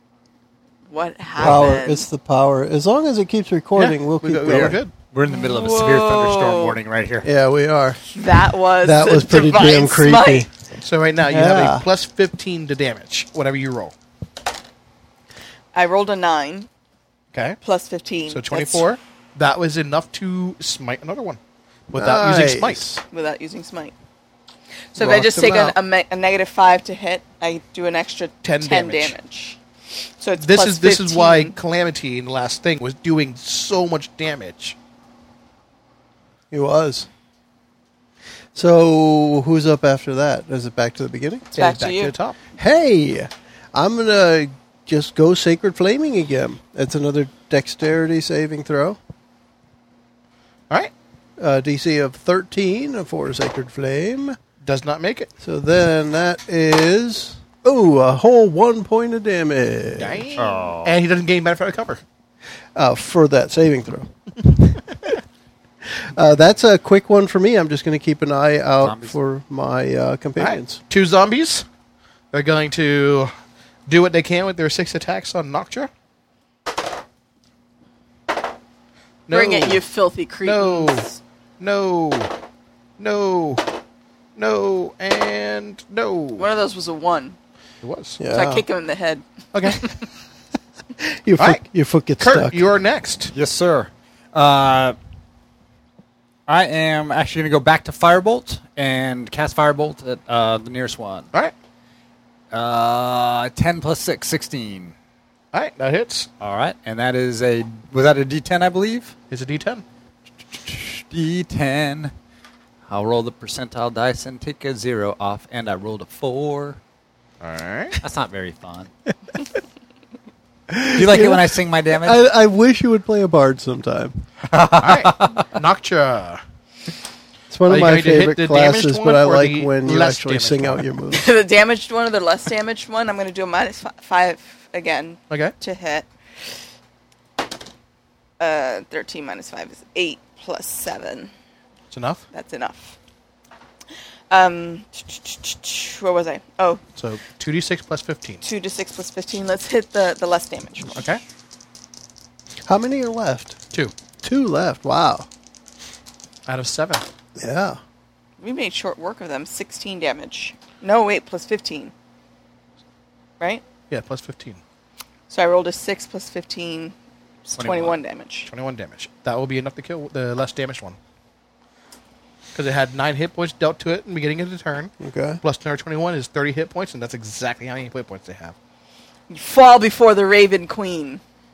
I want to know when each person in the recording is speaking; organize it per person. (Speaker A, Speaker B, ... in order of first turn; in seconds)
Speaker A: 0.9-2.0, 5.3-6.8, 8.1-10.5, 15.7-16.7, 17.6-18.9, 23.1-23.9, 24.9-29.6, 30.2-31.5, 41.5-42.1, 79.3-81.2, 86.4-87.3, 88.3-89.9, 131.1-136.1, 138.4-141.3, 142.3-142.9, 144.3-146.8, 148.4-151.1, 158.4-161.9, 165.3-166.9, 167.5-168.5, 179.3-181.2
Speaker B: 1.4-4.8, 7.2-8.0, 8.8-10.5, 11.3-11.8, 21.9-23.0, 25.0-25.8, 36.5-37.1, 38.5-41.5, 42.6-49.0, 51.4-54.4, 55.4-60.3, 62.7-65.2, 65.9-70.8, 88.2-88.6, 91.0-92.6, 120.7-124.2, 127.5-131.3, 152.6-153.6, 154.2-155.3, 157.4-157.8, 175.0-175.4
Speaker C: 3.7-4.9, 10.8-13.9, 17.3-17.6, 18.3-21.4, 21.9-22.9, 28.4-29.1, 30.4-34.8, 41.5-42.4, 54.6-55.3, 60.0-62.0, 70.4-71.7, 72.3-73.3, 73.9-75.9, 79.3-79.8, 80.4-81.1, 81.6-82.3, 83.0-83.6, 84.3-86.5, 87.8-88.2, 89.5-89.8, 91.4-91.6, 92.2-93.3, 105.5-106.3, 109.3-109.8, 117.4-118.0, 124.8-126.4, 127.7-130.9, 141.9-142.2, 146.9-148.4, 150.9-151.2, 156.5-157.1, 163.9-164.6, 168.5-171.0, 172.5-178.5
Speaker D: 4.4-7.3, 60.4-61.0, 68.8-69.2, 93.3-95.0, 96.5-101.3, 102.5-104.9, 106.4-109.1, 110.5-112.1, 112.9-116.8, 118.0-118.9, 120.9-122.2, 124.5-125.5, 167.6-167.9